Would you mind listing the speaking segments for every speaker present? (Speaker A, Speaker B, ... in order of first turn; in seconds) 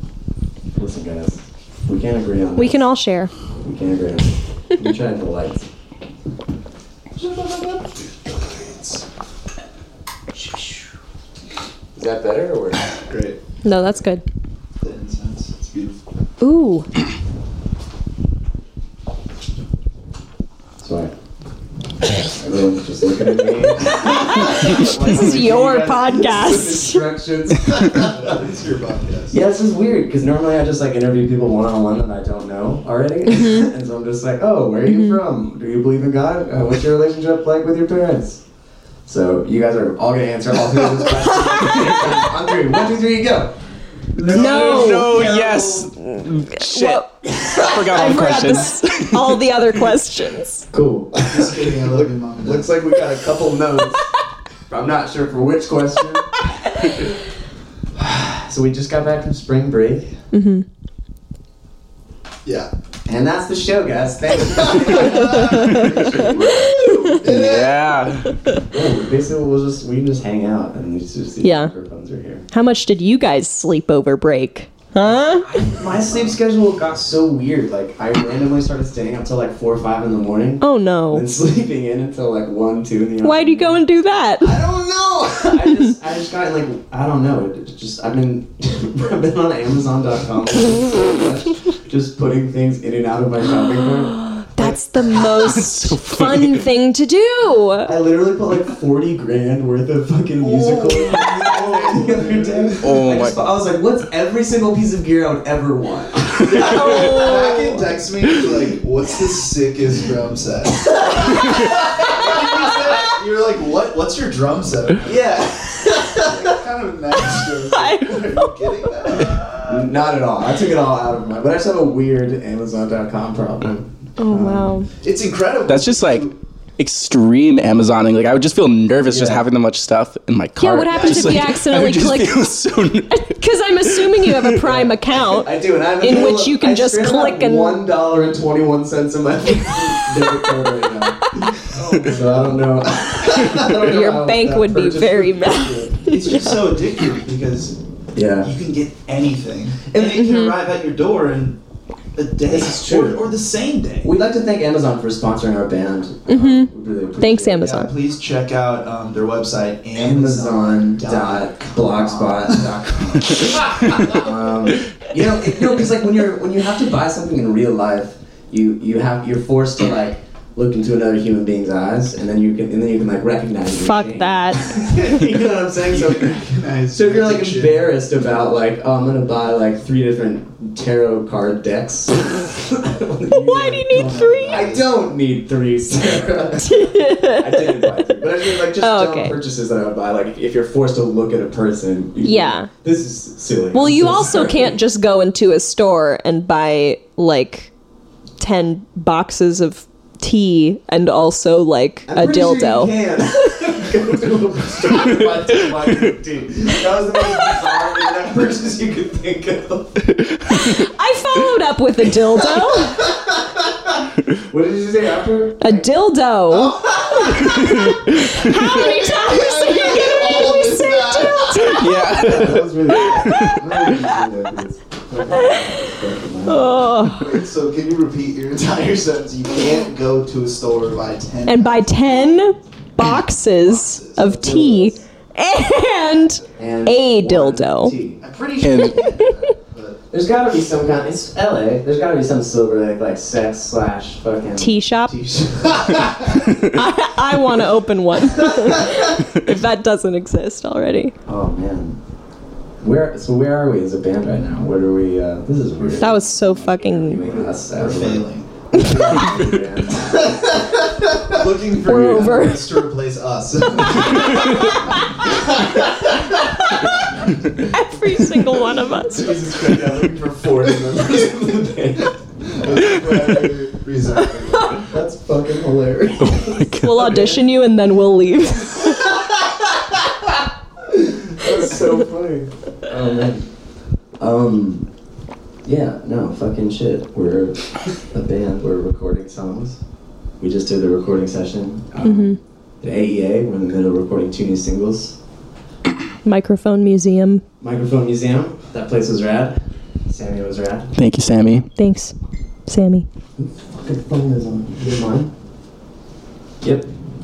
Speaker A: 0.7-2.9, 3.6-5.7, 7.2-9.0, 10.3-10.8, 11.9-12.8, 20.8-21.1, 22.2-28.4, 29.3-38.4, 39.0-43.6, 44.2-45.4, 47.4-47.7, 50.7-54.0, 54.7-56.3, 58.0-60.1, 63.0-67.6, 68.7-72.5, 75.0-83.8, 84.4-95.2, 97.8-107.0, 115.0-116.5, 119.7-124.8, 129.0-129.4, 134.6-146.0, 148.1-148.5, 152.4-153.3, 154.0-157.8, 159.9-194.7, 202.1-210.0, 214.5-215.9, 222.1-226.9, 234.2-235.0, 236.6-238.2, 240.1-246.4, 251.3-252.0, 252.8-260.9, 269.1-272.1, 274.9-277.4, 280.9-283.5, 284.2-284.9, 285.6-289.8, 290.4-295.2, 297.6-300.9, 303.4-305.3, 306.6-306.9
Speaker B: 2.6-3.3, 13.6-14.2, 16.4-16.9, 24.1-27.1, 33.3-33.6, 34.9-35.2, 44.3-45.2, 46.0-50.7, 60.3-60.6, 65.1-67.2, 71.4-71.7, 72.5-75.5, 80.6-81.2, 83.2-84.6, 94.2-97.9, 106.6-107.8, 117.7-118.5, 124.2-124.9, 130.6-132.5, 133.2-137.8, 143.6-146.7, 150.0-150.6, 156.3-157.9, 173.8-175.2, 183.3-184.8, 186.6-187.9, 188.6-189.4, 192.2-192.7, 193.7-197.7, 198.4-202.9, 210.6-213.1, 215.6-222.2, 223.1-223.6, 226.4-227.3, 231.4-238.0, 239.0-239.3, 244.6-245.1, 246.6-251.1, 256.0-257.2, 261.7-262.8, 267.7-269.4, 274.4-274.8, 276.7-279.2, 292.0-292.4, 296.2-297.4, 301.8-302.1, 302.7-303.1
Speaker C: 13.1-13.9, 14.8-16.0, 27.7-29.4, 44.1-45.9, 51.2-52.7, 64.5-68.0, 100.5-102.9, 106.5-119.8, 125.0-126.4, 130.9-131.4, 141.7-142.6, 143.4-143.7, 146.0-147.8, 148.4-151.6, 152.1-154.1, 157.6-164.2, 175.8-178.0, 183.5-185.0, 193.9-194.4, 216.8-217.7, 218.4-223.4, 227.0-232.5, 233.4-234.3, 238.2-240.0, 257.3-266.4, 272.5-274.9
Speaker D: 44.2-49.6, 67.3-68.4, 95.4-96.6, 102.8-103.4, 125.7-134.6, 221.6-223.6, 238.6-239.0, 276.2-277.2, 300.9-301.7